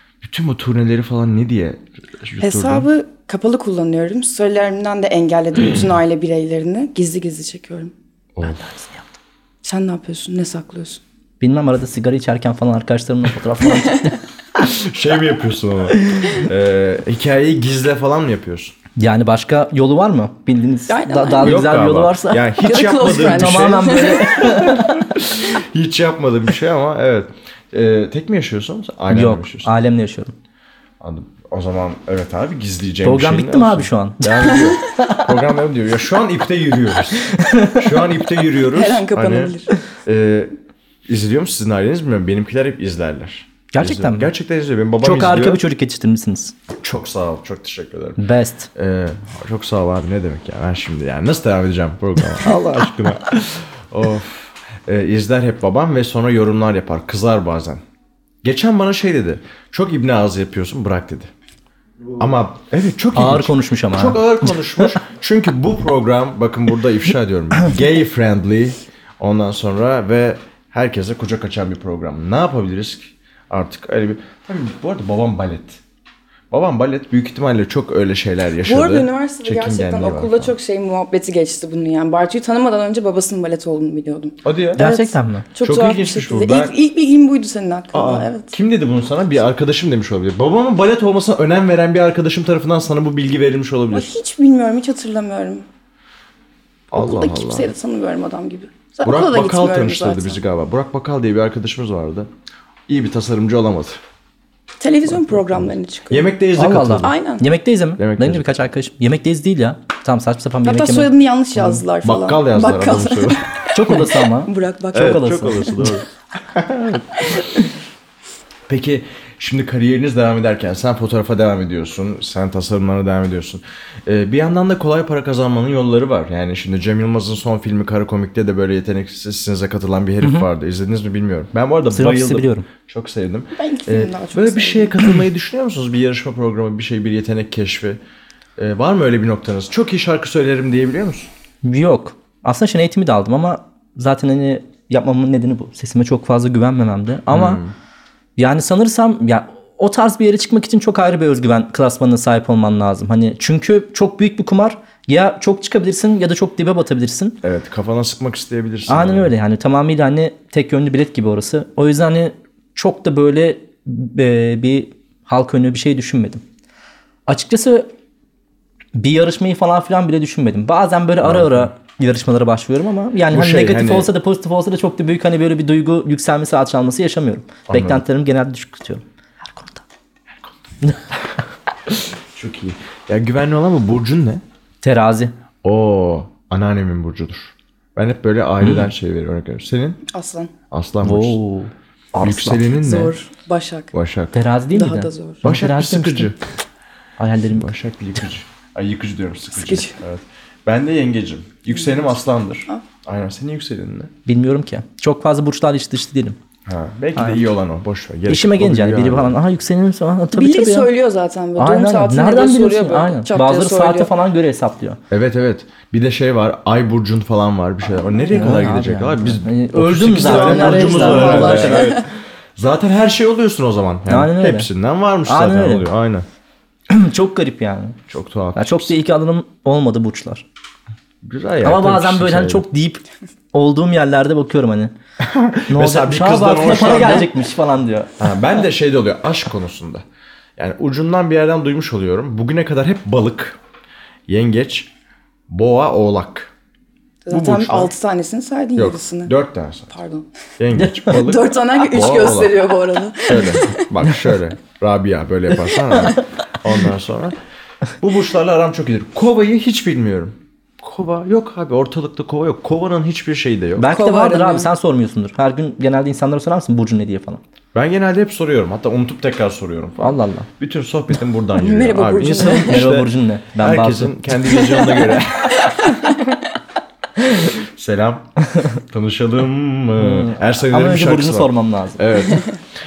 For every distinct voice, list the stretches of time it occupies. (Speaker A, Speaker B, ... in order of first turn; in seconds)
Speaker A: 0.2-2.9, 8.4-8.6, 14.6-18.8, 21.4-29.7, 31.0-40.5, 41.1-45.6, 46.8-48.2, 48.8-57.8, 58.4-61.3, 62.2-75.8, 76.5-80.5, 84.4-84.8, 85.6-86.8, 87.9-94.2, 96.9-97.7, 99.0-102.3, 102.9-104.0, 105.1-107.2, 108.0-108.5, 112.0-113.4, 114.9-117.4, 118.7-138.0, 138.6-141.3, 147.3-147.7, 157.4-159.3, 171.2-171.7, 173.3-174.1, 177.7-178.0, 181.9-184.4, 185.6-190.0, 190.7-191.4, 192.2-193.2, 193.9-194.3, 195.4-196.4, 197.5-204.1, 206.7-209.4, 215.1-226.3, 228.1-228.9, 231.2-232.7, 235.2-237.3, 238.2-240.0, 240.6-243.6, 244.3-244.9, 245.5-246.5, 247.3-247.9, 248.8-249.9, 250.6-252.7, 253.2-257.4, 258.0-263.9, 267.7-276.1, 277.2-278.3, 278.9-282.6
Speaker B: 2.4-7.9, 9.6-11.0, 20.9-21.6, 22.6-24.7, 38.6-39.7, 78.6-88.5, 93.9-95.7, 96.9-100.4, 104.8-106.3, 106.9-107.5, 110.6-115.9, 133.6-135.0, 190.1-190.5, 192.7-193.9, 194.7-195.4, 199.6-200.0, 201.7-202.0, 210.3-214.1, 218.1-218.6, 220.3-222.0, 247.3-249.3, 249.9-250.3, 251.1-253.9, 263.9-264.7, 271.6-272.8, 274.6-274.9, 275.6-276.1
Speaker C: 8.4-9.1, 11.4-14.2, 19.0-22.4, 23.1-25.1, 29.1-30.3, 33.0-34.6, 37.2-37.9, 43.7-44.3, 45.0-46.5, 48.2-48.7, 63.1-65.0, 84.8-85.5, 106.6-111.8, 113.7-115.8, 130.2-130.5, 131.9-132.7, 141.6-147.6, 148.4-157.4, 158.9-166.4, 167.3-167.9, 168.9-179.8, 184.8-185.3, 188.6-188.9, 191.0-192.7, 194.3-196.3, 197.2-197.7, 204.3-206.4, 207.2-207.4, 208.3-210.9, 211.6-215.0, 218.3-222.0, 224.1-224.7, 225.2-225.9, 226.9-228.0, 228.6-230.4, 231.6-233.0, 233.5-234.9, 235.7-238.2, 250.8-251.1, 263.8-267.4, 270.0-270.5, 272.4-274.2, 280.0-282.0